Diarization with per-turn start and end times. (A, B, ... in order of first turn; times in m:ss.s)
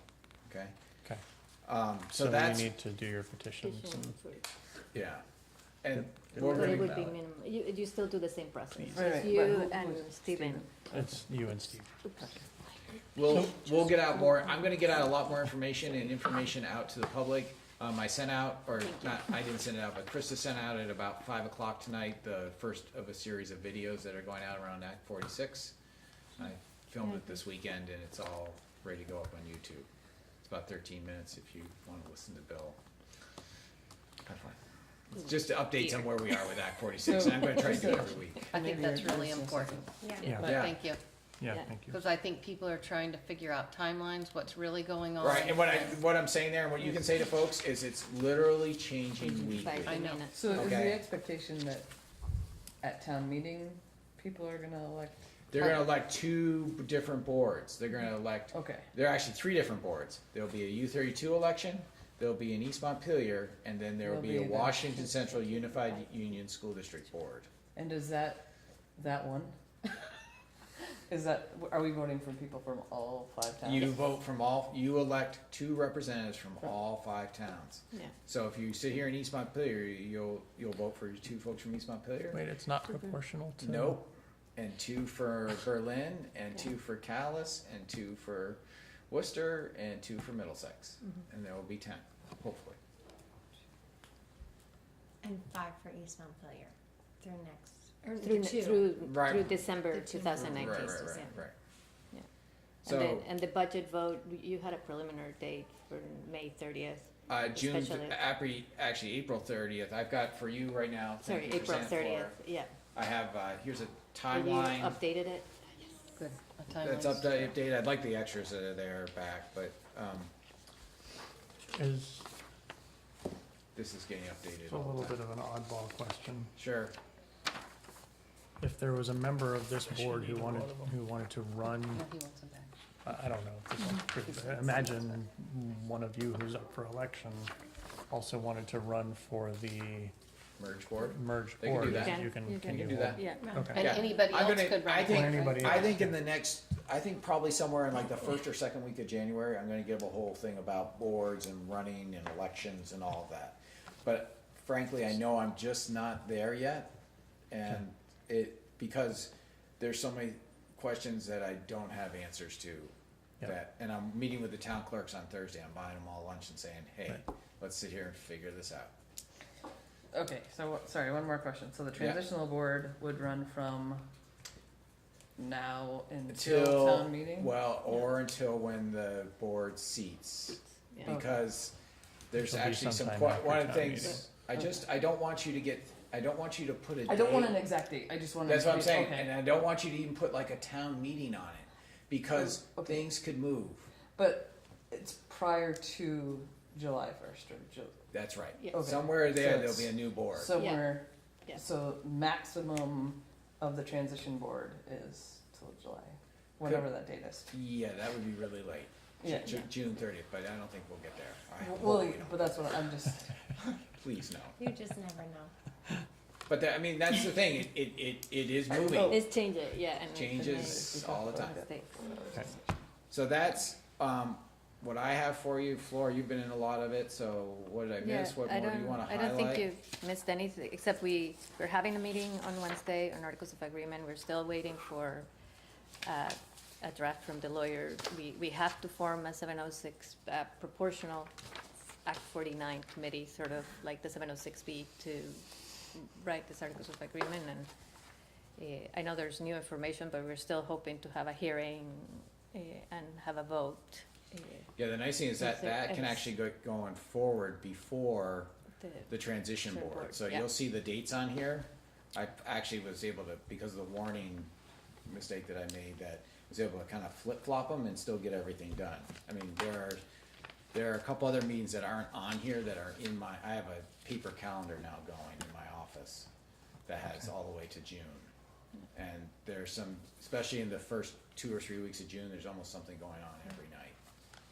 0:00.5-0:00.7 A
0:01.6-0:02.7 A
0:02.2-0:04.2 B
0:03.6-0:04.5 C
0:04.9-0:05.2 A
0:05.8-0:07.0 A
0:05.9-0:07.2 B
0:06.4-0:10.7 C
0:08.9-0:11.1 D
0:10.9-0:11.9 B
0:11.6-0:14.9 C
0:13.2-0:25.8 A
0:13.3-0:13.8 B
0:18.8-0:19.2 C
0:26.4-0:29.9 A
0:30.4-0:32.8 A
0:34.2-0:34.6 A
0:35.1-0:38.5 A
0:37.0-0:39.9 D
0:38.5-0:41.0 E
0:40.0-0:40.4 F
0:40.2-0:40.8 B
0:40.4-0:40.8 A
0:41.4-0:42.0 B
0:41.9-0:46.0 E
0:45.2-0:50.0 A
0:49.2-0:50.8 C
0:49.9-0:50.3 E
0:50.3-0:51.9 D
0:50.5-0:51.0 A
0:52.8-0:55.2 D
0:55.5-1:07.5 A
0:58.5-0:58.9 D
1:04.0-1:05.0 D
1:05.0-1:06.2 C
1:07.8-1:08.4 D
1:09.0-1:09.5 D
1:11.1-1:14.0 D
1:13.6-1:22.4 A
1:22.3-1:24.0 B
1:23.6-1:32.8 A
1:35.2-1:39.4 F
1:38.2-1:41.4 C
1:39.0-1:39.6 A
1:39.9-1:41.3 F
1:40.3-1:41.5 A
1:42.8-1:48.2 C
1:42.8-1:43.3 A
1:47.3-1:52.4 A
1:51.2-1:52.7 C
1:52.9-1:55.0 A
1:54.3-1:55.5 C
1:56.2-1:57.6 E
1:56.8-2:00.3 A
2:01.7-2:02.3 B
2:03.7-2:05.2 A
2:04.6-2:06.5 B
2:06.6-2:07.0 A
2:08.6-2:12.1 B
2:10.0-2:10.9 D
2:11.9-2:12.7 D
2:13.0-2:17.5 B
2:14.3-2:15.2 D
2:18.1-2:20.1 B
2:20.6-2:36.9 A
2:21.0-2:24.0 B
2:21.8-2:23.5 C
2:23.4-2:24.2 F
2:23.7-2:25.8 E
2:25.0-2:26.2 B
2:37.5-2:48.9 A
2:50.1-2:54.0 D
2:55.4-2:57.5 D
2:56.3-3:01.8 A
3:01.1-3:01.4 D
3:02.3-3:07.6 A
3:02.3-3:04.2 B
3:07.1-3:09.3 D
3:08.4-3:13.9 A
3:12.4-3:13.0 D
3:14.2-3:18.0 D
3:18.1-3:20.5 A
3:18.7-3:27.5 D
3:20.5-3:20.9 C
3:27.5-3:32.5 A
3:29.2-3:29.7 D
3:31.6-3:33.6 D
3:33.9-3:34.6 A
3:34.6-3:35.5 F
3:36.5-3:39.2 A
3:38.8-3:39.1 D
3:39.0-3:41.9 C
3:40.1-3:41.6 A
3:40.4-3:42.6 D
3:43.1-3:49.7 A
3:48.0-3:55.3 C
3:56.0-4:01.3 C
4:02.0-4:07.7 C
4:08.6-4:14.7 C
4:14.8-4:18.5 A
4:15.4-4:16.3 C
4:18.8-4:19.1 C
4:19.1-4:24.5 A
4:19.6-4:20.5 C
4:25.1-4:30.0 A
4:30.7-4:36.3 A
4:36.9-4:38.3 A
4:38.9-4:44.0 A